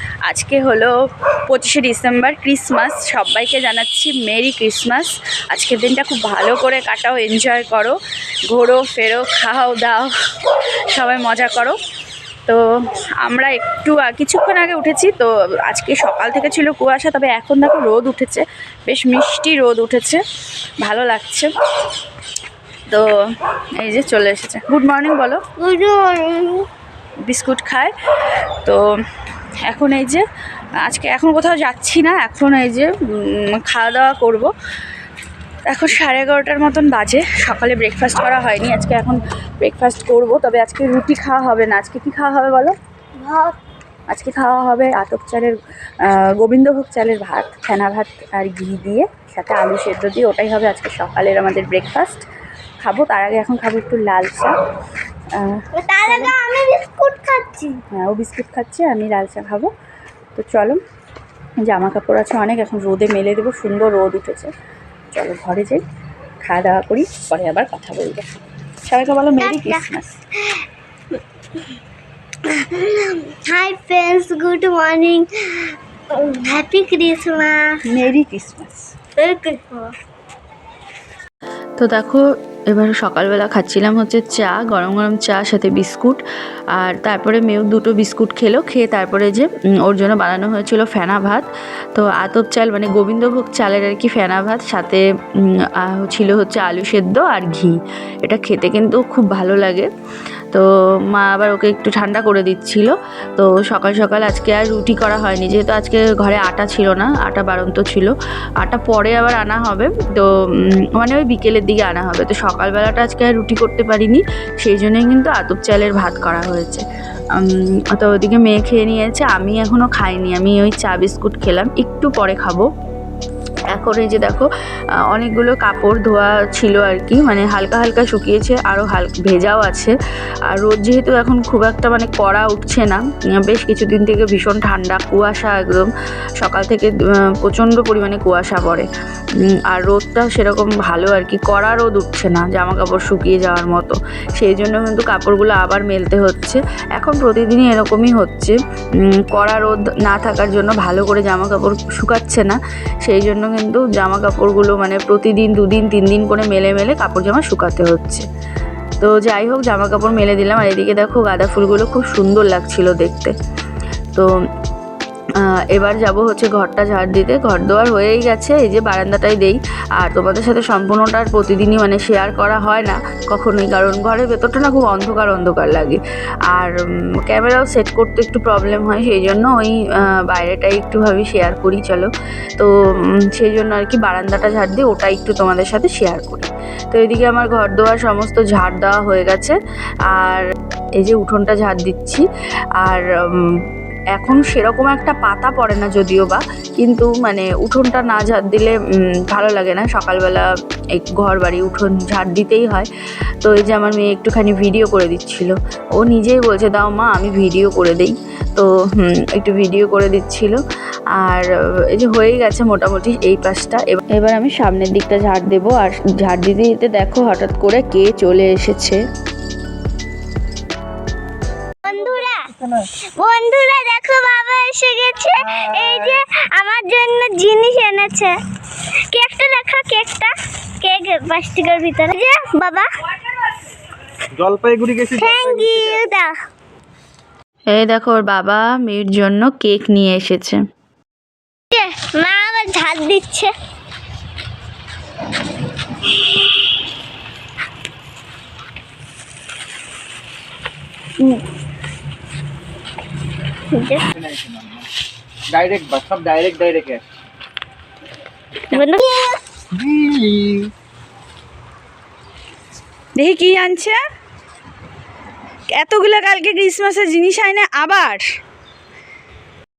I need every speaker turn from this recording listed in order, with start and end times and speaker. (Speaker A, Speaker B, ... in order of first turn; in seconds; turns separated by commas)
Speaker A: 0.3-0.9, Speaker A: 1.5-8.0, Speaker A: 8.5-11.8, Speaker A: 13.2-20.2, Speaker A: 20.8-21.5, Speaker A: 23.8-25.4, Speaker B: 25.6-26.7, Speaker A: 27.3-27.9, Speaker A: 29.7-30.2, Speaker A: 30.8-34.5, Speaker A: 35.7-42.8, Speaker B: 43.2-43.6, Speaker A: 44.1-52.3, Speaker A: 52.8-54.6, Speaker A: 55.3-56.4, Speaker B: 55.7-57.8, Speaker A: 58.0-59.7, Speaker A: 60.4-60.8, Speaker A: 61.6-64.5, Speaker A: 65.1-65.8, Speaker A: 66.4-68.3, Speaker A: 68.8-70.2, Speaker B: 69.4-69.8, Speaker B: 70.4-71.8, Speaker B: 72.4-77.8, Speaker A: 77.8-78.9, Speaker B: 79.2-79.9, Speaker A: 81.8-86.2, Speaker A: 86.8-99.9, Speaker A: 100.5-110.3, Speaker A: 111.0-122.7, Speaker A: 123.7-124.5, Speaker A: 125.1-129.9, Speaker A: 130.5-138.9, Speaker A: 139.4-148.6, Speaker A: 149.2-158.3, Speaker A: 159.0-163.3, Speaker A: 165.4-176.0, Speaker A: 176.5-189.6, Speaker A: 190.1-190.5, Speaker A: 191.0-192.2, Speaker A: 192.8-193.6, Speaker A: 194.1-198.8, Speaker A: 199.3-202.9, Speaker A: 203.4-210.6, Speaker A: 211.2-219.0, Speaker B: 221.8-222.5, Speaker B: 223.2-233.3, Speaker C: 234.3-236.0, Speaker B: 235.1-236.3, Speaker A: 237.7-240.6, Speaker B: 241.7-243.5, Speaker B: 253.7-254.1, Speaker C: 254.2-254.8, Speaker C: 255.5-257.0, Speaker B: 258.7-259.4, Speaker C: 259.7-260.7, Speaker A: 263.2-264.0, Speaker A: 265.8-268.2